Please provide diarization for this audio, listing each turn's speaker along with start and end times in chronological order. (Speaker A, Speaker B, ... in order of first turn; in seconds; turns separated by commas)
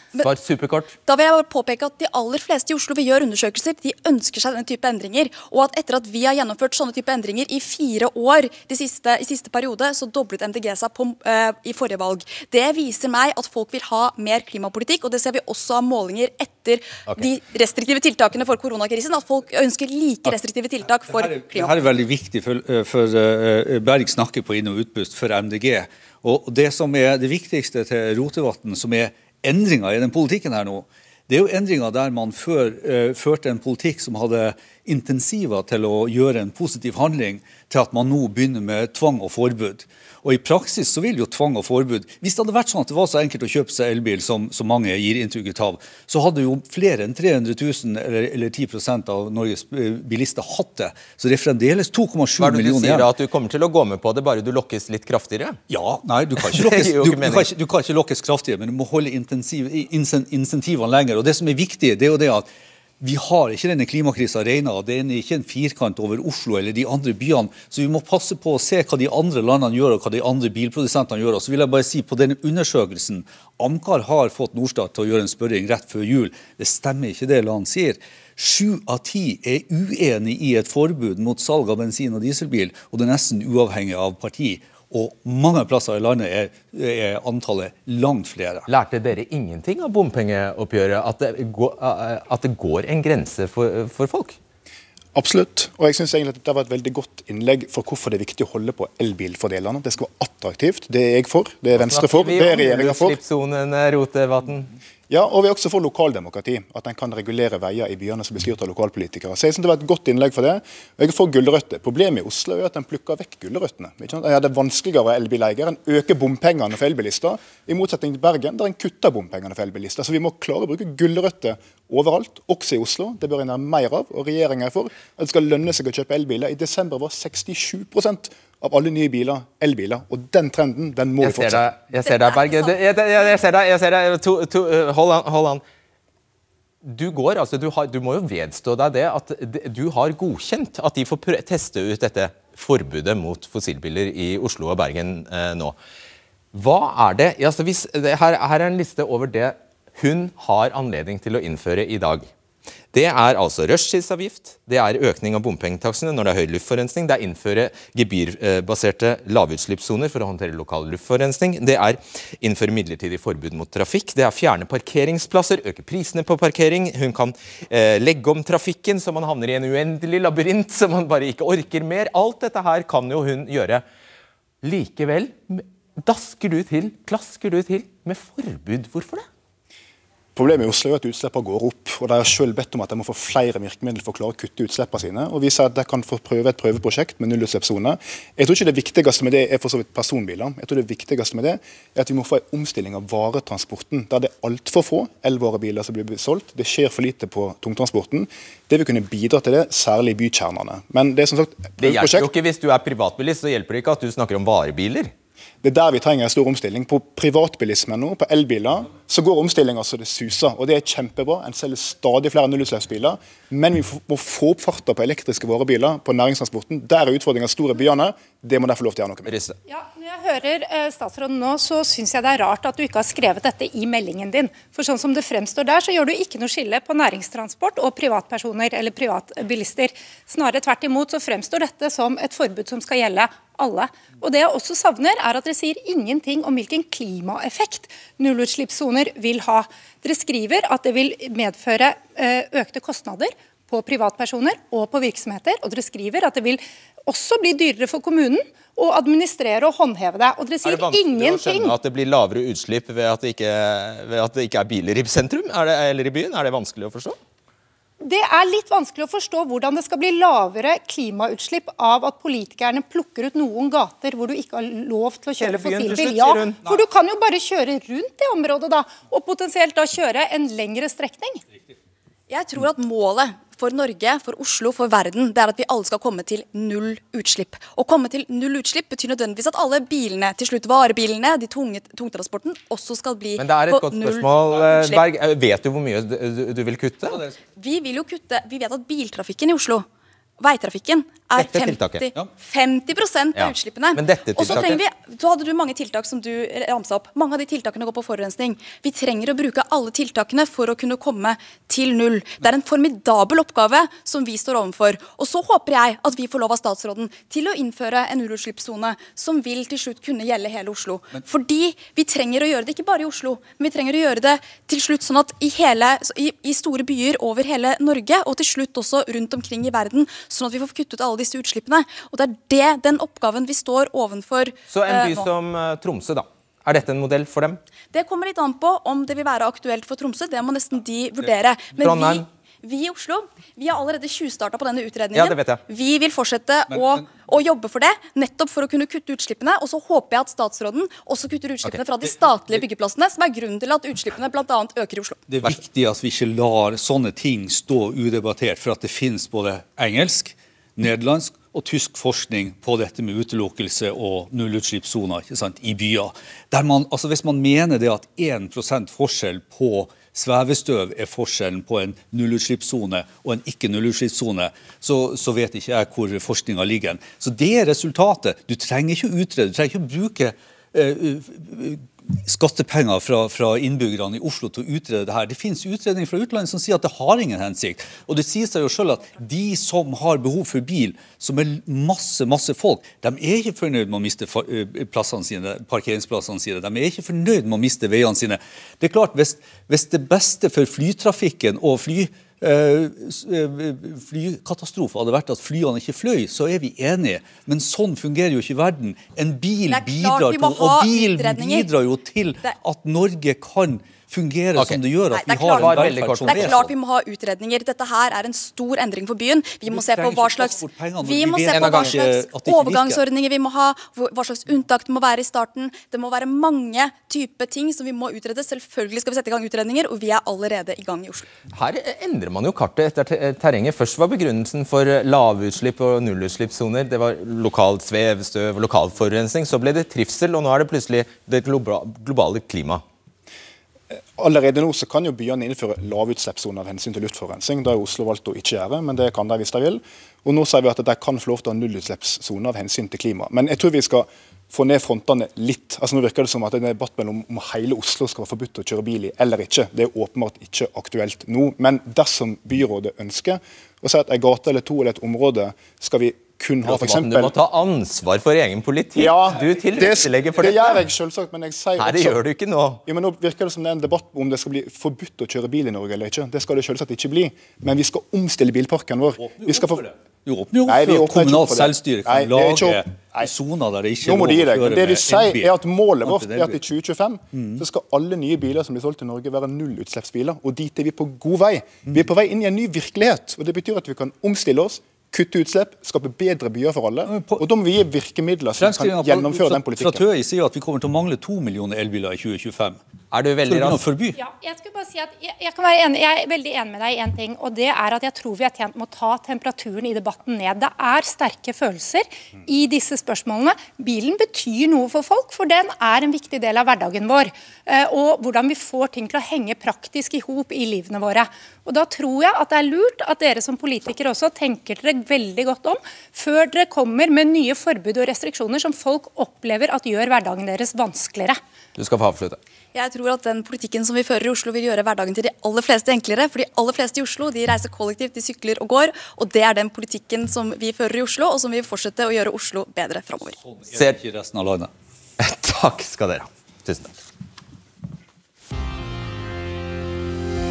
Speaker A: 0.2-0.9, Speaker B: 1.1-21.8, Speaker C: 21.1-53.1, Speaker A: 52.4-55.6, Speaker C: 55.7-62.5, Speaker A: 56.4-57.5, Speaker C: 63.0-88.7, Speaker A: 88.7-94.4, Speaker D: 95.2-103.2, Speaker A: 101.8-104.7, Speaker D: 105.1-131.7, Speaker A: 131.2-135.6, Speaker B: 132.1-132.7, Speaker A: 136.8-145.8, Speaker A: 146.5-152.3, Speaker A: 152.9-173.8, Speaker A: 174.6-179.3, Speaker D: 180.3-202.3, Speaker A: 201.8-205.1, Speaker D: 205.6-219.3, Speaker A: 219.3-219.6, Speaker E: 219.7-251.8, Speaker A: 250.7-257.2, Speaker E: 258.0-271.4, Speaker A: 265.4-266.6, Speaker B: 272.3-285.0, Speaker A: 283.4-287.2, Speaker C: 287.1-287.4, Speaker B: 287.6-289.9, Speaker B: 290.4-325.3, Speaker A: 291.4-292.1, Speaker A: 293.4-294.8, Speaker A: 324.7-327.6, Speaker B: 327.9-345.3, Speaker A: 331.8-332.2, Speaker A: 335.1-335.6, Speaker C: 336.7-337.2, Speaker C: 345.3-406.7, Speaker B: 399.7-401.7, Speaker B: 405.1-421.3, Speaker A: 405.6-406.6, Speaker C: 409.7-413.0, Speaker A: 411.5-412.0, Speaker A: 421.5-432.8, Speaker D: 433.9-457.3, Speaker A: 456.6-460.8, Speaker D: 459.0-462.2, Speaker A: 461.8-462.8, Speaker D: 462.9-469.9, Speaker C: 469.2-476.6, Speaker D: 470.7-473.3, Speaker D: 474.0-490.1, Speaker C: 477.3-477.6, Speaker C: 487.1-487.4, Speaker C: 488.6-492.8, Speaker A: 493.1-493.8, Speaker C: 493.5-494.2, Speaker E: 494.1-521.4, Speaker A: 521.8-522.4, Speaker B: 522.7-533.4, Speaker C: 533.3-534.7, Speaker A: 535.2-536.9